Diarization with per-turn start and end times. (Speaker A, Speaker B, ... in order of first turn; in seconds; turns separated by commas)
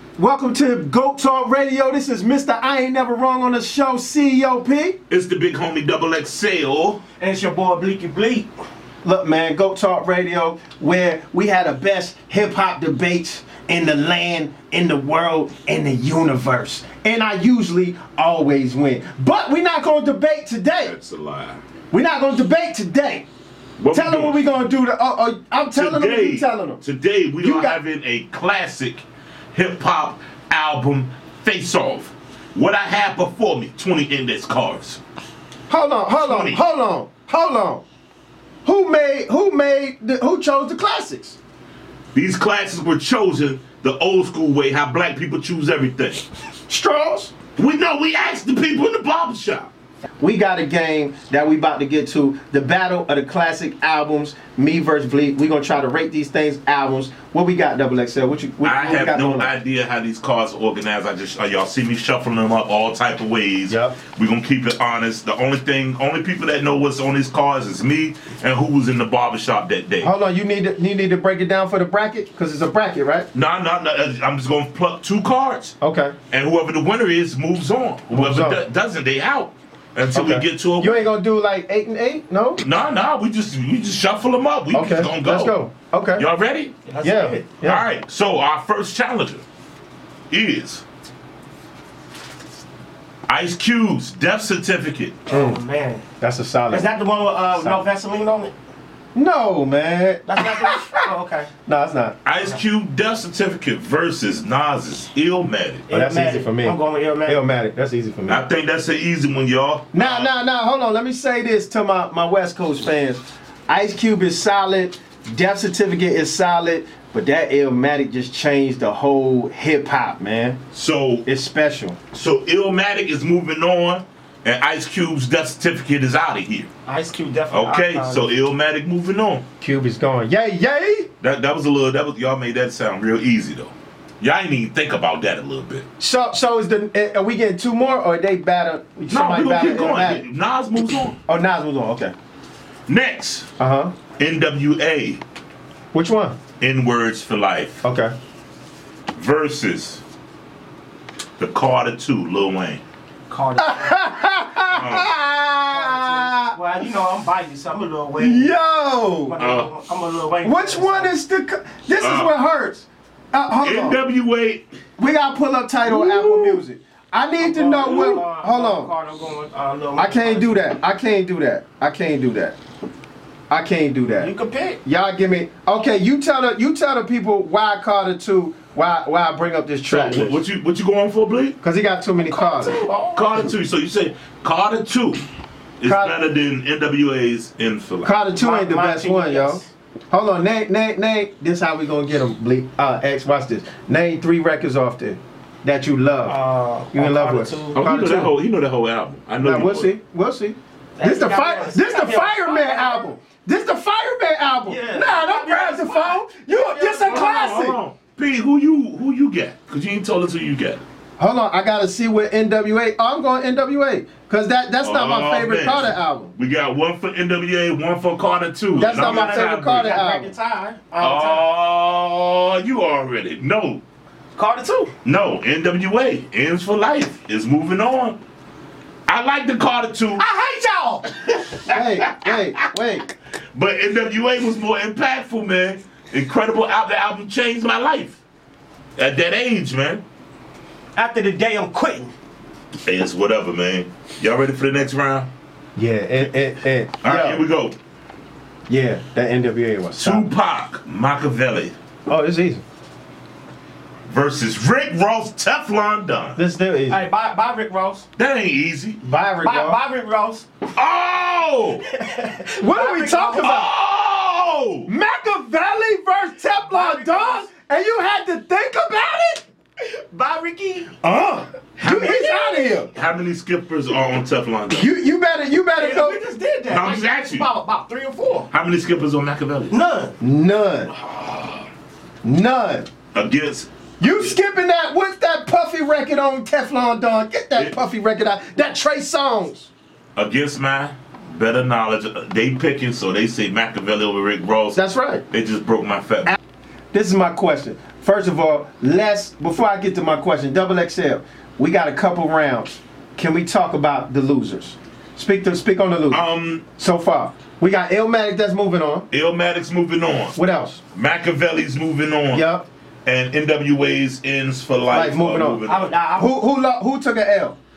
Speaker A: 0.2-5.0, Speaker B: 5.1-7.0, Speaker C: 7.2-8.5, Speaker A: 9.0-20.9, Speaker B: 20.8-21.6, Speaker A: 21.9-23.3, Speaker B: 23.8-24.4, Speaker A: 23.9-26.8, Speaker B: 25.8-35.0, Speaker A: 27.4-27.8, Speaker A: 35.7-37.8, Speaker B: 36.1-36.6, Speaker A: 38.6-41.4, Speaker B: 42.1-46.3, Speaker A: 46.7-47.3, Speaker B: 47.6-49.7, Speaker A: 50.2-59.5, Speaker B: 58.6-70.1, Speaker A: 63.7-64.0, Speaker A: 70.0-73.3, Speaker B: 73.3-75.8, Speaker A: 75.8-76.2, Speaker B: 76.3-81.1, Speaker A: 78.1-78.6, Speaker A: 80.1-82.6, Speaker B: 82.6-85.6, Speaker A: 84.7-86.3, Speaker B: 86.2-86.8, Speaker C: 86.9-87.4, Speaker A: 87.0-87.9, Speaker B: 87.6-89.4, Speaker B: 90.3-90.8, Speaker B: 93.3-95.2, Speaker C: 95.3-96.1, Speaker A: 95.3-95.6, Speaker A: 96.2-96.9, Speaker C: 96.7-98.5, Speaker A: 97.6-97.8, Speaker A: 99.2-101.0, Speaker C: 100.3-101.5, Speaker A: 101.7-102.2, Speaker B: 102.2-105.9, Speaker C: 105.9-107.4, Speaker A: 105.9-108.4, Speaker B: 108.3-110.3, Speaker A: 109.9-120.6, Speaker B: 120.7-121.3, Speaker A: 121.3-122.0, Speaker B: 122.1-126.7, Speaker C: 126.9-128.3, Speaker B: 127.5-129.4, Speaker A: 129.6-131.1, Speaker B: 131.2-135.9, Speaker A: 136.0-140.2, Speaker B: 139.1-141.2, Speaker A: 141.3-142.2, Speaker B: 142.9-143.5, Speaker A: 143.6-144.0, Speaker B: 144.2-145.2, Speaker A: 145.9-146.4, Speaker B: 146.6-147.8, Speaker A: 147.8-148.2, Speaker B: 149.2-150.0, Speaker B: 151.4-152.8, Speaker C: 153.3-154.0, Speaker A: 153.6-156.6, Speaker B: 154.7-155.1, Speaker C: 155.7-158.5, Speaker A: 158.2-159.4, Speaker C: 159.3-161.2, Speaker B: 159.4-159.7, Speaker A: 160.4-164.0, Speaker B: 162.0-162.3, Speaker B: 163.6-164.7, Speaker A: 165.0-168.9, Speaker B: 165.9-166.6, Speaker C: 167.4-170.6, Speaker A: 170.0-172.6, Speaker A: 173.5-174.3, Speaker C: 174.2-174.8, Speaker A: 174.8-180.4, Speaker B: 179.9-181.6, Speaker A: 181.6-182.8, Speaker C: 182.2-183.5, Speaker B: 183.2-185.2, Speaker B: 185.8-188.1, Speaker A: 185.8-186.2, Speaker A: 188.0-196.4, Speaker C: 188.3-189.7, Speaker C: 196.3-197.8, Speaker A: 196.9-198.3, Speaker B: 197.8-199.9, Speaker A: 199.4-207.8, Speaker C: 201.0-203.0, Speaker C: 204.7-207.1, Speaker B: 206.8-210.8, Speaker A: 211.2-216.3, Speaker B: 214.8-219.9, Speaker A: 218.8-220.3, Speaker C: 218.8-221.4, Speaker B: 221.0-223.8, Speaker C: 224.4-224.9, Speaker B: 225.1-228.2, Speaker B: 229.1-230.2, Speaker C: 230.2-231.4, Speaker B: 231.6-232.7, Speaker A: 231.7-233.1, Speaker B: 233.5-238.2, Speaker B: 239.0-240.0, Speaker C: 241.0-242.1, Speaker B: 242.9-245.3, Speaker A: 245.8-247.4, Speaker B: 247.0-247.8, Speaker A: 248.7-250.3, Speaker B: 250.0-251.8, Speaker A: 252.1-252.6, Speaker B: 254.1-256.4, Speaker A: 256.4-257.0, Speaker C: 256.9-258.1, Speaker B: 258.2-259.0, Speaker A: 259.0-259.8, Speaker C: 259.4-260.5, Speaker B: 260.8-261.9, Speaker C: 261.9-263.6, Speaker A: 262.6-263.7, Speaker B: 263.4-264.9, Speaker A: 264.9-269.5, Speaker C: 266.7-267.5, Speaker C: 269.8-270.9, Speaker A: 271.0-272.9, Speaker B: 271.8-272.3, Speaker C: 271.8-272.7, Speaker B: 272.9-274.9, Speaker A: 274.7-276.2, Speaker C: 275.8-278.5, Speaker B: 276.7-277.5, Speaker B: 278.5-279.8, Speaker C: 279.7-280.1, Speaker A: 280.2-280.9, Speaker B: 281.1-281.6, Speaker A: 282.2-282.9, Speaker B: 283.1-283.7, Speaker A: 284.0-289.7, Speaker B: 290.2-296.4, Speaker A: 294.7-295.2, Speaker A: 296.9-306.2, Speaker B: 306.1-306.6, Speaker A: 306.8-309.1, Speaker B: 309.1-310.4, Speaker A: 310.4-310.8, Speaker B: 310.9-312.5, Speaker A: 312.3-312.7, Speaker B: 313.1-316.0, Speaker A: 314.8-315.6, Speaker C: 315.7-316.3, Speaker A: 316.2-317.6